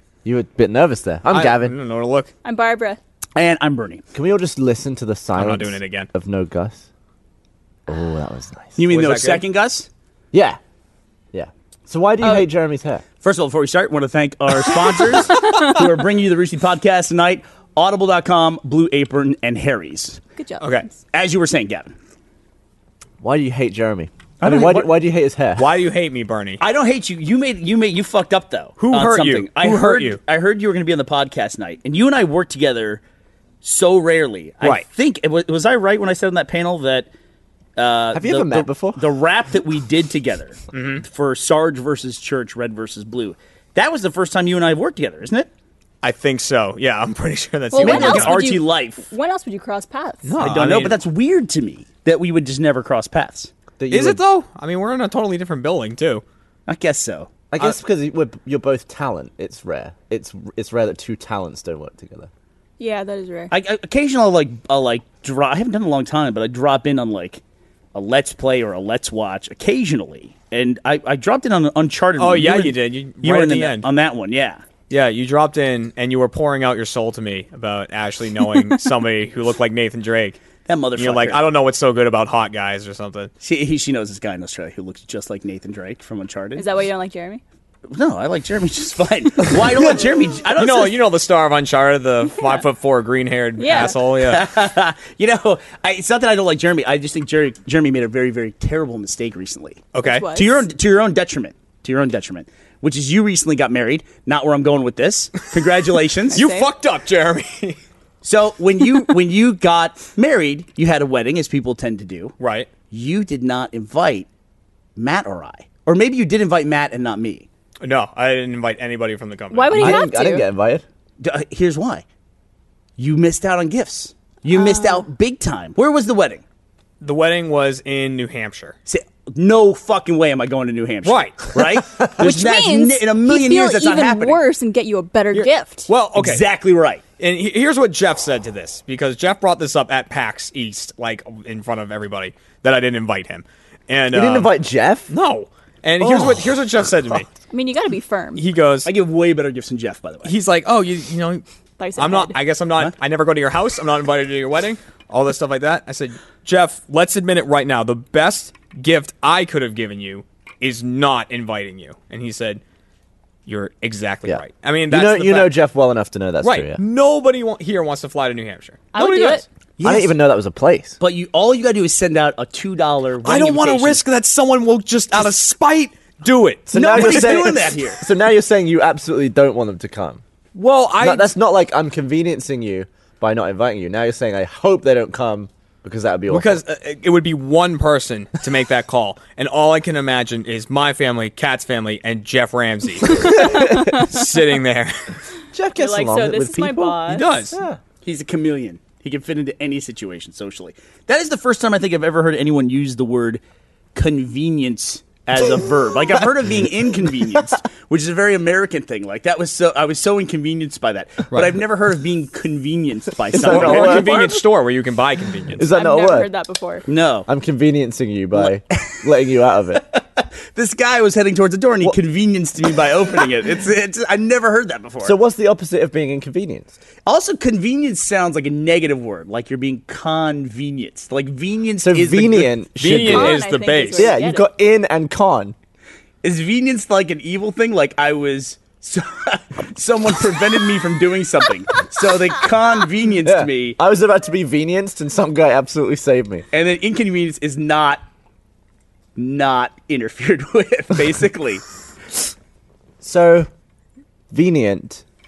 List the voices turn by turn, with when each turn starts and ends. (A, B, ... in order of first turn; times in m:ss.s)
0:00.2-0:01.7 A
0:01.3-0:02.3 B
0:02.4-0:03.0 C
0:03.4-0:04.0 D
0:04.1-0:06.8 A
0:05.3-0:06.1 B
0:07.9-0:08.8 A
0:08.8-0:09.9 D
0:08.9-0:09.4 B
0:10.3-0:10.6 A
0:11.3-0:13.0 A
0:13.2-0:20.2 D
0:20.4-0:21.0 C
0:20.6-0:20.8 B
0:21.1-0:21.9 D
0:23.2-0:25.7 A
0:24.4-0:24.9 D
0:25.6-0:26.6 B
0:26.6-0:33.0 D
0:28.8-0:30.2 B
0:33.6-0:37.1 D
0:37.8-0:45.5 D
0:38.1-0:39.1 A
0:40.7-0:41.0 B
0:46.0-0:48.4 B
0:47.7-0:50.3 C
0:47.8-0:49.1 D
0:50.2-0:51.0 B
0:50.4-0:53.5 D
0:53.8-0:54.2 A
0:53.9-0:56.2 B
0:56.7-0:57.3 D
0:57.5-1:02.3 A
1:02.8-1:03.5 C
1:03.5-1:07.4 D
1:07.9-1:14.6 D
1:12.2-1:13.9 B
1:14.9-1:20.4 B
1:20.6-1:21.5 D
1:21.0-1:23.3 B
1:23.4-1:26.6 D
1:26.6-1:27.4 C
1:27.9-1:30.9 D
1:30.6-1:34.4 B
1:32.4-1:32.6 C
1:33.6-1:34.0 C
1:34.1-1:46.4 D
1:39.9-1:40.3 B
1:40.0-1:40.6 C
1:46.3-1:46.7 C
1:46.3-1:47.8 B
1:48.2-1:52.3 D
1:52.4-1:52.7 B
1:52.9-1:54.3 D
1:55.0-1:57.4 D
1:57.8-2:00.0 B
1:59.5-2:00.5 C
1:59.7-2:00.8 A
2:01.2-2:02.0 D
2:03.0-2:06.4 D
2:04.5-2:05.0 C
2:07.0-2:08.7 B
2:08.9-2:14.4 D
2:11.0-2:11.6 B
2:12.2-2:15.9 C
2:15.3-2:16.4 B
2:16.2-2:17.0 D
2:17.2-2:24.5 B
2:24.1-2:25.1 A
2:25.1-2:27.3 B
2:26.0-2:26.5 A
2:27.5-2:28.4 C
2:28.4-2:28.9 B
2:28.8-2:30.3 D
2:30.2-2:31.4 B
2:31.8-2:32.4 C
2:32.0-2:42.6 B
2:43.5-2:45.5 B
2:44.2-2:46.8 A
2:46.4-2:49.4 B
2:48.9-2:49.4 C
2:49.8-2:50.1 D
2:49.8-2:51.0 A
2:51.0-2:54.0 D
2:53.2-2:57.6 B
2:56.7-3:00.2 A
2:56.7-2:58.0 D
3:00.5-3:01.3 B
3:01.0-3:06.6 A
3:06.3-3:15.1 B
3:13.0-3:14.2 C
3:13.3-3:13.8 A
3:15.5-3:17.8 A
3:15.8-3:17.3 C
3:17.1-3:17.6 B
3:18.0-3:23.4 D
3:23.9-3:34.4 D
3:31.3-3:31.6 B
3:33.3-3:34.3 A
3:33.4-3:35.6 B
3:35.6-3:36.3 A
3:35.7-3:36.8 C
3:36.8-3:37.3 D
3:37.2-3:39.8 A
3:39.9-3:45.2 D
3:45.0-3:46.8 A
3:47.1-3:53.2 D
3:51.8-3:53.4 A
3:52.8-3:54.2 B
3:52.9-3:54.5 C
3:53.9-3:55.5 A
3:56.2-4:03.8 D
4:03.2-4:06.4 A
4:06.5-4:08.0 D
4:09.2-4:11.6 D
4:13.0-4:13.5 A
4:14.3-4:15.0 A